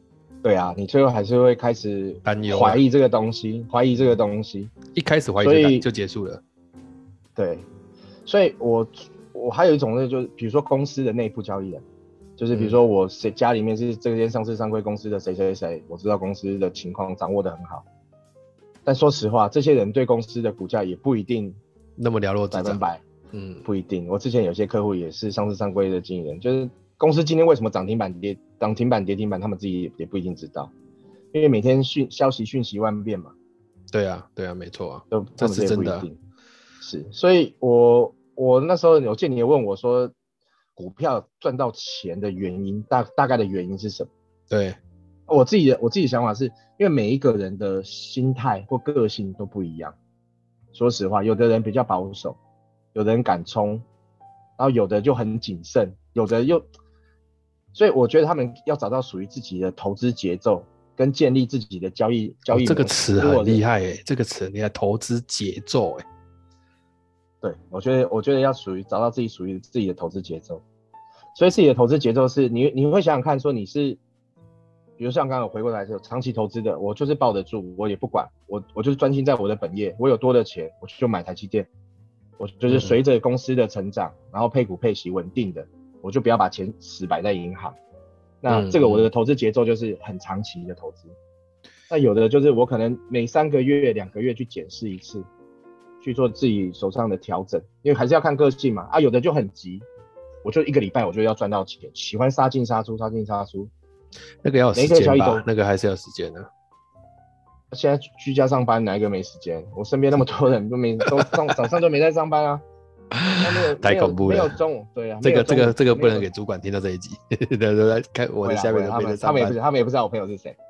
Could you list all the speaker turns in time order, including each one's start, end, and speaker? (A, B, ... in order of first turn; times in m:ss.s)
0:00.4-0:04.7 A
0:02.2-0:02.8 B
0:04.9-0:06.4 B
0:05.4-0:05.9 A
0:07.4-0:07.7 A
0:08.3-0:11.8 A
0:12.4-0:17.8 A
0:18.9-0:21.6 A
0:22.0-0:23.6 B
0:22.5-0:23.0 A
0:23.6-0:30.7 A
0:31.3-0:33.3 A
0:33.9-0:36.1 B
0:35.1-0:36.2 A
0:36.8-0:40.1 A
0:40.8-0:44.1 A
0:44.5-0:44.8 B
0:45.3-0:49.9 A
0:50.7-0:52.4 A
0:52.9-0:53.8 A
0:54.6-0:56.7 A
0:57.7-1:03.6 A
1:02.5-1:06.0 B
1:07.4-1:10.6 A
1:11.3-1:14.0 A
1:15.0-1:21.7 A
1:22.4-1:27.8 A
1:22.7-1:23.0 B
1:28.4-1:31.1 A
1:28.5-1:29.1 B
1:31.9-1:35.3 A
1:36.0-1:39.9 A
1:40.4-1:43.7 A
1:44.4-1:46.5 B
1:44.7-1:45.4 A
1:47.7-1:52.6 A
1:51.1-1:51.3 B
1:53.1-1:54.6 B
1:53.4-1:56.3 A
1:55.2-1:59.6 B
1:58.4-2:00.6 A